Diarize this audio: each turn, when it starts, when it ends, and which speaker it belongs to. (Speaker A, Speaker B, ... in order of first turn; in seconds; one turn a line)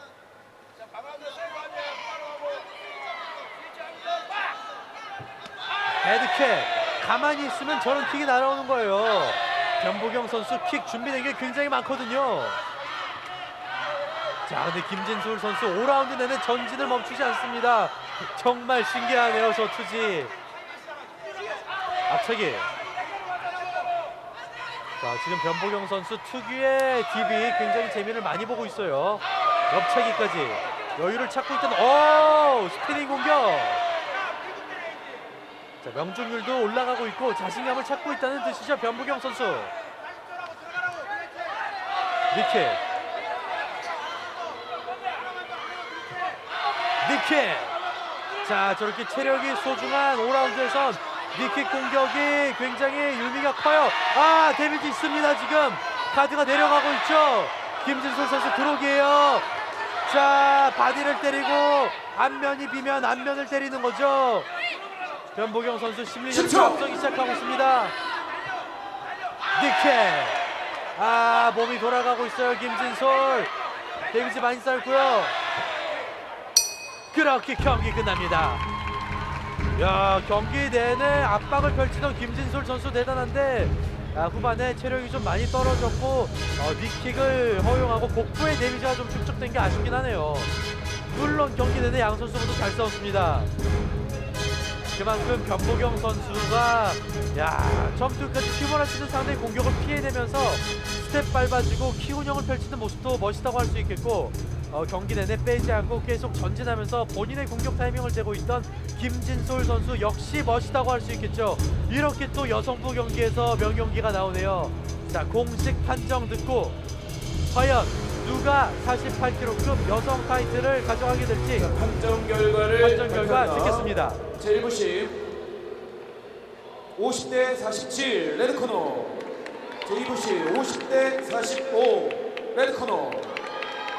Speaker A: 6.0-12.6
Speaker A: 14.4-20.3
Speaker A: 22.1-22.7
Speaker A: 25.0-33.8
Speaker A: 35.8-39.7
Speaker A: 42.3-42.8
Speaker A: 47.0-47.8
Speaker A: 48.4-59.5
Speaker A: 60.0-64.5
Speaker A: 65.3-67.9
Speaker B: 66.3-66.8
Speaker A: 69.5-73.5
Speaker A: 74.0-75.4
Speaker A: 77.1-78.6
Speaker A: 79.7-90.5
Speaker A: 91.0-93.5
Speaker A: 94.9-116.8
Speaker A: 117.4-121.7
Speaker B: 121.5-125.2
Speaker A: 122.8-124.2
Speaker B: 127.0-129.2
Speaker B: 129.8-133.4